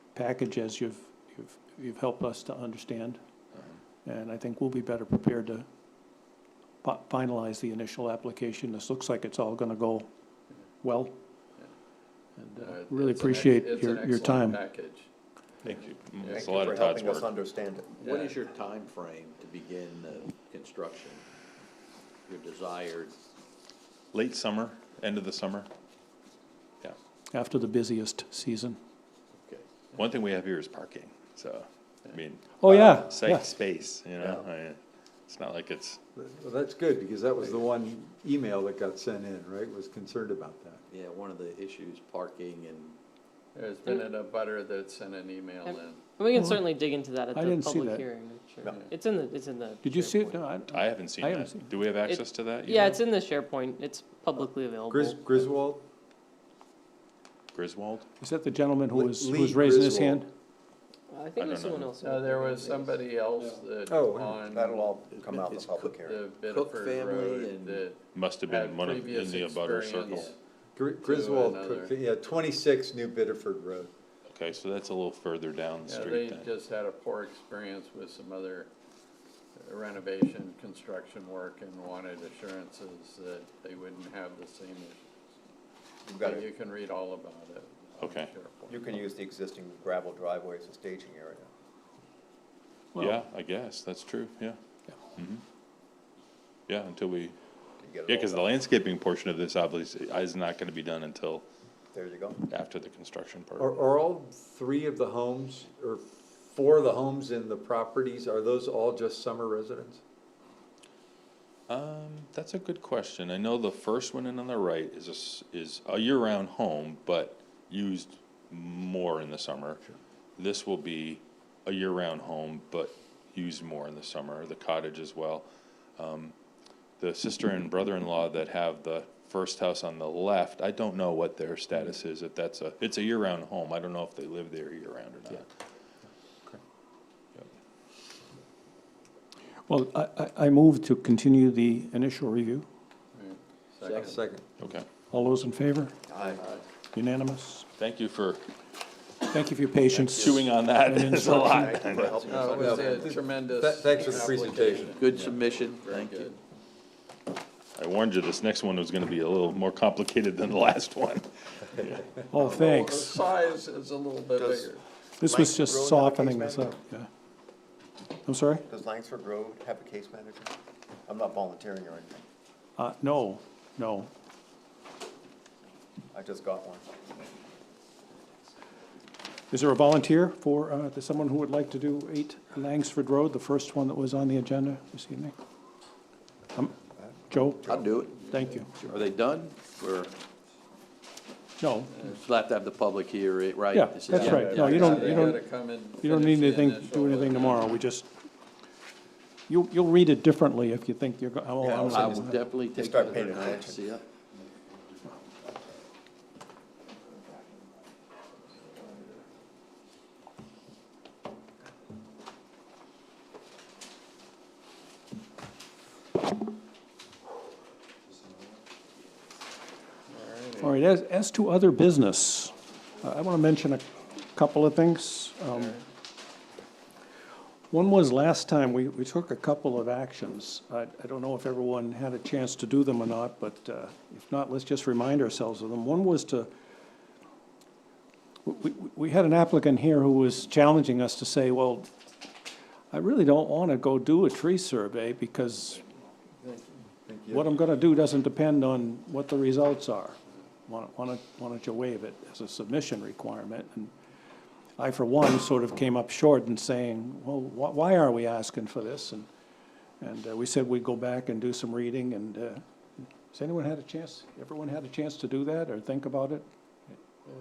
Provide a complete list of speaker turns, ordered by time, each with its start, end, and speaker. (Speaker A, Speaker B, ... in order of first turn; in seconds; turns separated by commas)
Speaker A: 0.1-3.2, Speaker A: 4.0-5.7, Speaker A: 6.8-10.1, Speaker A: 10.8-11.2, Speaker A: 12.4-14.6, Speaker B: 12.6-15.1, Speaker C: 15.6-17.3, Speaker B: 16.2-16.6, Speaker D: 16.3-17.9, Speaker E: 18.0-21.2, Speaker B: 18.0-18.4, Speaker E: 22.3-23.1, Speaker C: 24.1-25.7, Speaker A: 27.3-28.8, Speaker E: 29.4-29.7, Speaker C: 29.9-36.0, Speaker A: 32.6-33.5, Speaker F: 36.1-40.8, Speaker E: 40.9-43.0, Speaker B: 43.5-46.0, Speaker G: 45.6-50.4, Speaker A: 46.3-46.6, Speaker A: 47.3-48.0, Speaker A: 49.8-51.7, Speaker C: 50.7-52.9, Speaker G: 52.0-55.4, Speaker F: 54.9-55.8, Speaker C: 57.5-58.0, Speaker A: 58.2-60.3, Speaker F: 58.9-60.2, Speaker G: 61.1-63.0, Speaker C: 61.4-61.9, Speaker B: 62.0-64.9, Speaker F: 63.9-64.4, Speaker D: 64.5-66.2, Speaker E: 65.1-67.8, Speaker B: 66.0-70.3, Speaker C: 68.1-70.2, Speaker E: 70.0-70.3, Speaker F: 70.8-73.9, Speaker B: 71.0-71.9, Speaker C: 74.3-76.5, Speaker B: 75.8-78.7, Speaker B: 79.6-85.0, Speaker D: 86.0-86.5, Speaker B: 86.2-89.1, Speaker C: 88.0-88.3, Speaker D: 88.7-91.5, Speaker C: 93.0-94.6, Speaker C: 95.2-95.4, Speaker C: 96.7-97.3, Speaker D: 97.8-98.5, Speaker C: 98.1-101.5, Speaker D: 101.9-102.5, Speaker C: 102.5-103.8, Speaker F: 103.6-110.0, Speaker C: 111.7-119.8, Speaker C: 120.4-126.3, Speaker C: 127.0-135.5, Speaker A: 139.7-142.7, Speaker B: 143.1-144.2, Speaker E: 143.8-144.2, Speaker F: 144.0-144.4, Speaker C: 144.6-144.8, Speaker A: 145.1-146.0, Speaker D: 146.1-146.5, Speaker B: 146.3-146.6, Speaker A: 146.9-147.7, Speaker C: 147.8-148.4, Speaker A: 149.3-151.8, Speaker E: 149.9-150.4, Speaker C: 150.1-152.4, Speaker D: 151.4-153.2, Speaker B: 152.3-156.4, Speaker F: 152.4-155.3, Speaker E: 154.8-156.3, Speaker C: 157.7-162.0, Speaker A: 162.3-163.1, Speaker B: 162.3-164.8, Speaker D: 164.3-164.7, Speaker A: 165.2-167.1, Speaker D: 165.2-166.8, Speaker A: 168.2-168.6, Speaker D: 168.7-170.5, Speaker D: 171.1-172.2, Speaker A: 172.8-174.1, Speaker D: 176.1-176.9, Speaker A: 179.5-185.3, Speaker A: 187.3-188.7, Speaker E: 187.6-190.1, Speaker A: 191.6-192.0, Speaker E: 192.1-195.3, Speaker A: 193.7-195.4, Speaker F: 194.1-195.0, Speaker B: 194.1-197.8, Speaker A: 196.0-198.1, Speaker A: 199.5-202.4, Speaker D: 201.6-203.8, Speaker E: 201.8-204.0, Speaker B: 220.1-220.8, Speaker A: 220.6-225.8, Speaker A: 227.7-236.5, Speaker A: 238.4-241.9, Speaker A: 242.9-245.8, Speaker F: 247.0-247.5, Speaker A: 247.3-253.9, Speaker A: 254.8-259.3, Speaker A: 260.0-262.6, Speaker A: 263.3-266.4